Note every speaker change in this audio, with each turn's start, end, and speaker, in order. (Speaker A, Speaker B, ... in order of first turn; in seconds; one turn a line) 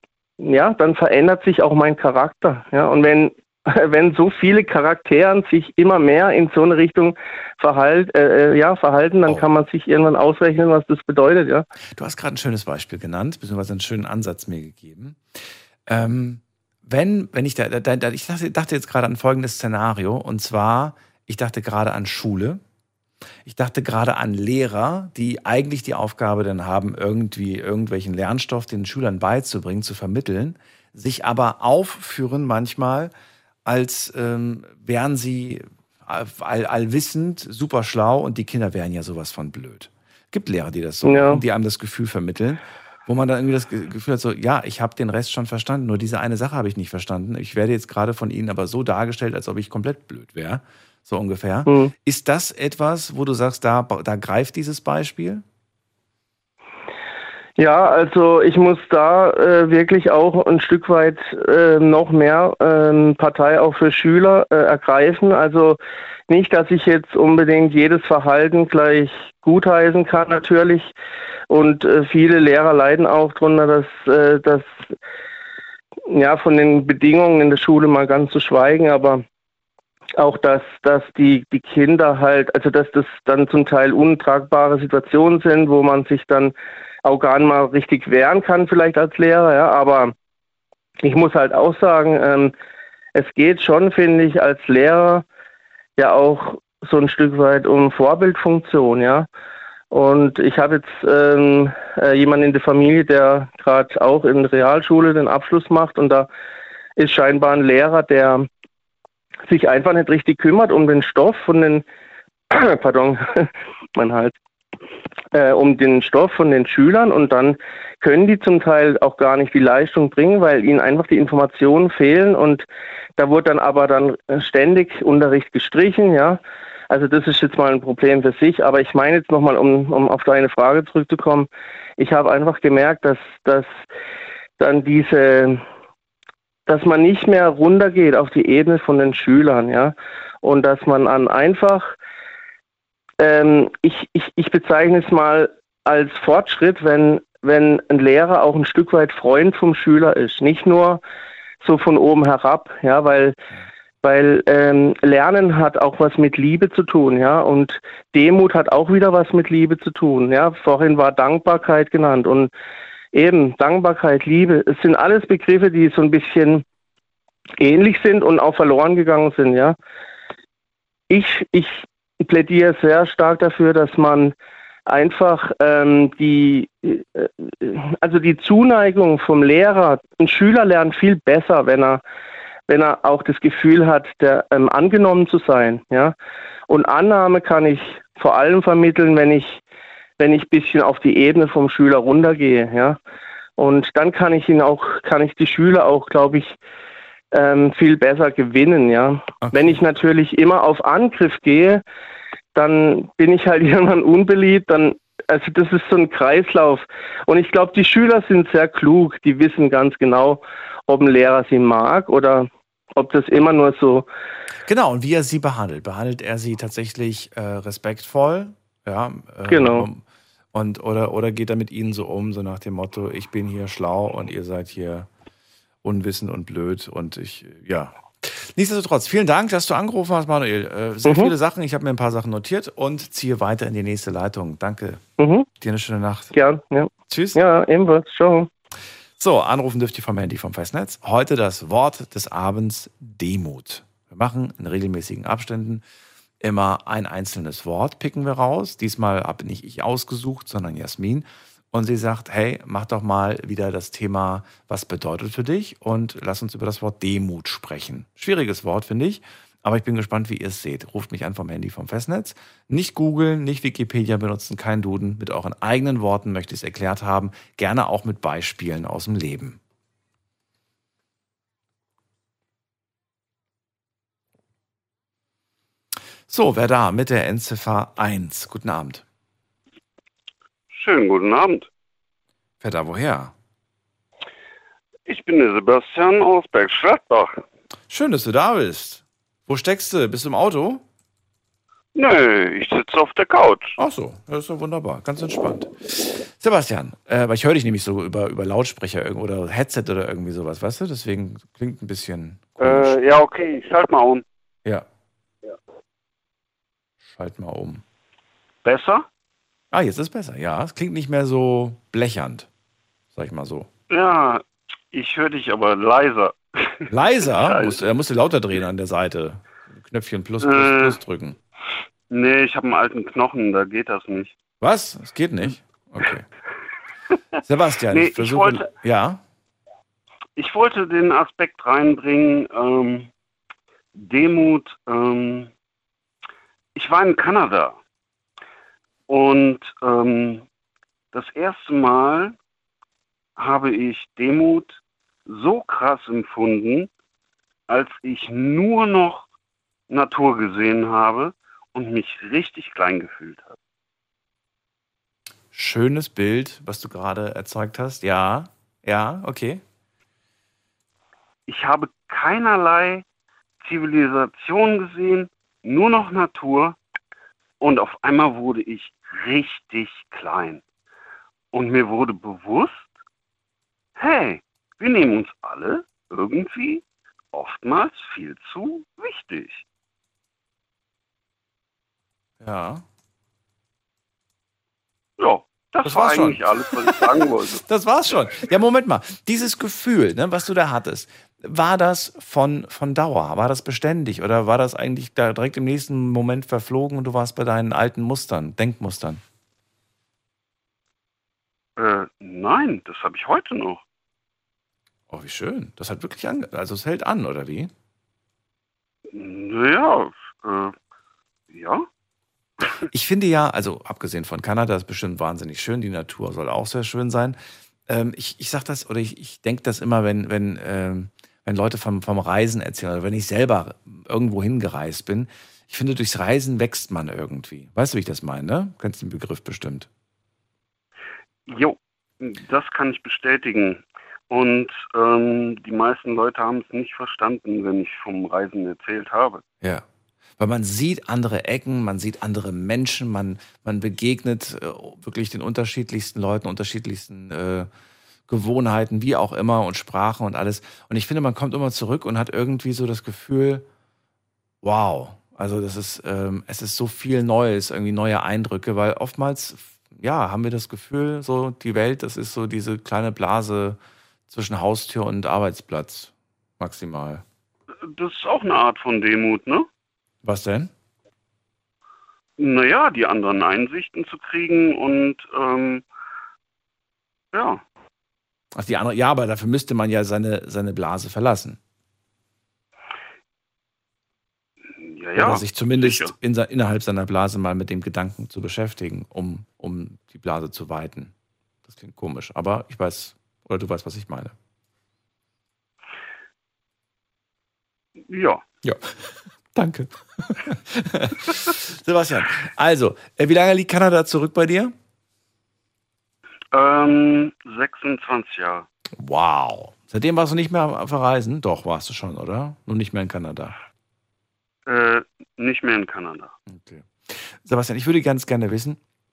Speaker A: 0.4-11.7
Speaker B: 11.9-22.6
Speaker B: 23.4-33.1
Speaker B: 33.6-55.4
Speaker A: 41.0-41.4
Speaker A: 51.6-51.9
Speaker A: 57.6-70.9
Speaker A: 71.5-74.8
Speaker A: 76.1-79.2
Speaker A: 80.2-86.5
Speaker A: 87.0-90.1
Speaker A: 91.0-92.5
Speaker A: 93.2-95.2
Speaker A: 96.0-99.3
Speaker A: 99.9-106.3
Speaker A: 107.0-108.5
Speaker A: 109.5-111.8
Speaker A: 112.5-114.3
Speaker A: 115.3-122.7
Speaker A: 123.2-133.7
Speaker A: 134.6-135.6
Speaker A: 136.7-141.9
Speaker A: 143.2-151.0
Speaker A: 151.6-153.4
Speaker A: 154.0-162.5
Speaker A: 163.1-166.6
Speaker A: 167.6-169.8
Speaker A: 171.1-174.3
Speaker A: 174.9-182.0
Speaker A: 182.7-186.1
Speaker A: 186.7-189.6
Speaker A: 190.2-193.0
Speaker A: 193.6-196.6
Speaker A: 197.3-201.8
Speaker B: 199.4-199.8
Speaker A: 202.6-214.1
Speaker B: 214.7-220.0
Speaker A: 219.5-219.9
Speaker B: 220.5-225.1
Speaker B: 225.8-235.0
Speaker A: 231.1-231.3
Speaker A: 235.2-235.5
Speaker B: 235.6-236.4
Speaker A: 236.3-238.5
Speaker B: 237.1-237.4
Speaker B: 239.2-245.8
Speaker B: 246.4-269.6
Speaker B: 276.3-279.0
Speaker C: 280.7-281.7
Speaker B: 282.6-283.3
Speaker C: 285.1-287.4
Speaker B: 287.9-290.8
Speaker C: 291.9-293.8
Speaker B: 293.8-303.1
Speaker C: 302.6-304.2
Speaker B: 307.0-307.8
Speaker C: 308.6-309.1
Speaker B: 309.7-312.5
Speaker B: 313.1-313.7
Speaker C: 313.9-317.8
Speaker B: 316.9-321.4
Speaker C: 320.4-321.0
Speaker C: 322.1-324.4
Speaker B: 324.6-326.2
Speaker B: 327.4-329.2
Speaker C: 327.9-328.7
Speaker C: 330.4-333.1
Speaker C: 333.9-335.5
Speaker C: 336.7-337.8
Speaker C: 339.1-340.4
Speaker C: 341.1-342.4
Speaker C: 343.4-346.9
Speaker C: 347.7-349.3
Speaker C: 349.9-353.6
Speaker B: 355.5-359.6
Speaker C: 361.5-363.1
Speaker C: 363.6-366.8
Speaker C: 367.6-370.6
Speaker C: 371.5-372.9
Speaker C: 374.0-379.6
Speaker B: 382.4-382.8
Speaker C: 385.2-387.6
Speaker B: 385.8-399.2
Speaker C: 401.8-403.8
Speaker B: 405.1-407.7
Speaker C: 409.1-410.7
Speaker C: 411.5-411.9
Speaker B: 412.9-429.9
Speaker C: 431.5-439.4
Speaker B: 440.4-447.7
Speaker B: 448.3-453.6
Speaker B: 454.6-467.2
Speaker C: 467.9-469.7
Speaker B: 470.2-470.7
Speaker C: 472.4-475.8
Speaker C: 477.3-477.6
Speaker B: 478.6-481.6
Speaker C: 484.8-486.1
Speaker B: 485.1-491.1
Speaker B: 491.7-494.3
Speaker C: 498.1-498.4
Speaker B: 498.6-504.7
Speaker C: 506.5-508.7
Speaker B: 509.0-513.5
Speaker C: 514.6-516.3
Speaker B: 516.5-518.8